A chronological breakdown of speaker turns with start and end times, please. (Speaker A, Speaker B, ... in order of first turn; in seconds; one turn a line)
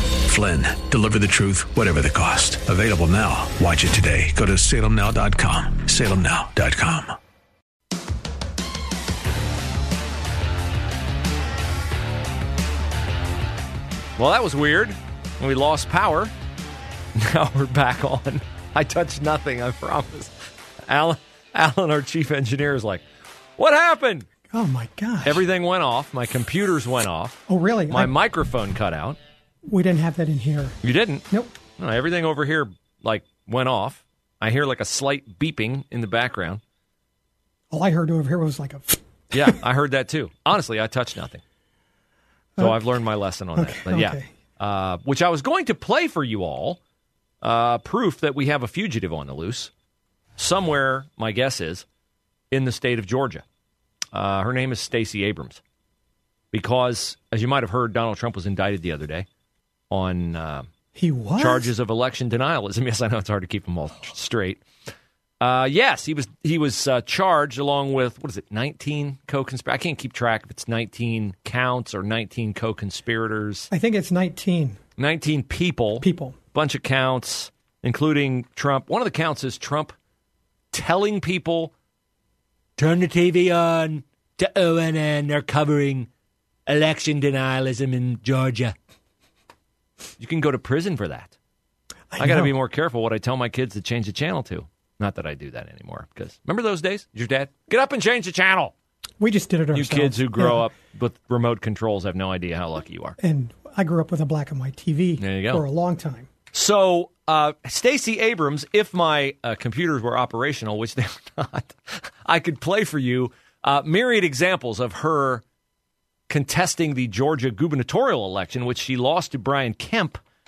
Speaker A: 0.2-7.1
Speaker B: 14.2-16.3
Speaker B: 17.2-20.3
Speaker B: 20.8-23.0
Speaker B: 23.6-24.3
Speaker C: 24.5-25.4
Speaker B: 25.2-29.2
Speaker C: 27.5-28.1
Speaker C: 29.7-30.7
Speaker B: 30.8-36.6
Speaker C: 37.7-39.5
Speaker B: 39.3-41.4
Speaker C: 42.6-42.9
Speaker B: 42.6-46.8
Speaker C: 43.5-44.3
Speaker B: 47.4-49.7
Speaker B: 50.4-51.9
Speaker B: 52.5-53.4
Speaker B: 54.1-55.6
Speaker B: 56.5-59.3
Speaker B: 59.9-60.7
Speaker C: 61.0-61.7
Speaker B: 61.4-64.6
Speaker B: 65.4-73.7
Speaker C: 73.7-74.8
Speaker B: 75.0-80.0
Speaker C: 76.0-76.4
Speaker B: 80.7-81.7
Speaker B: 82.8-86.1
Speaker B: 86.7-88.8
Speaker B: 90.2-91.3
Speaker C: 92.1-92.5
Speaker B: 92.2-98.7
Speaker C: 99.2-100.6
Speaker B: 99.7-103.2
Speaker C: 103.2-106.3
Speaker B: 105.2-105.6
Speaker B: 106.5-115.4
Speaker B: 116.3-120.2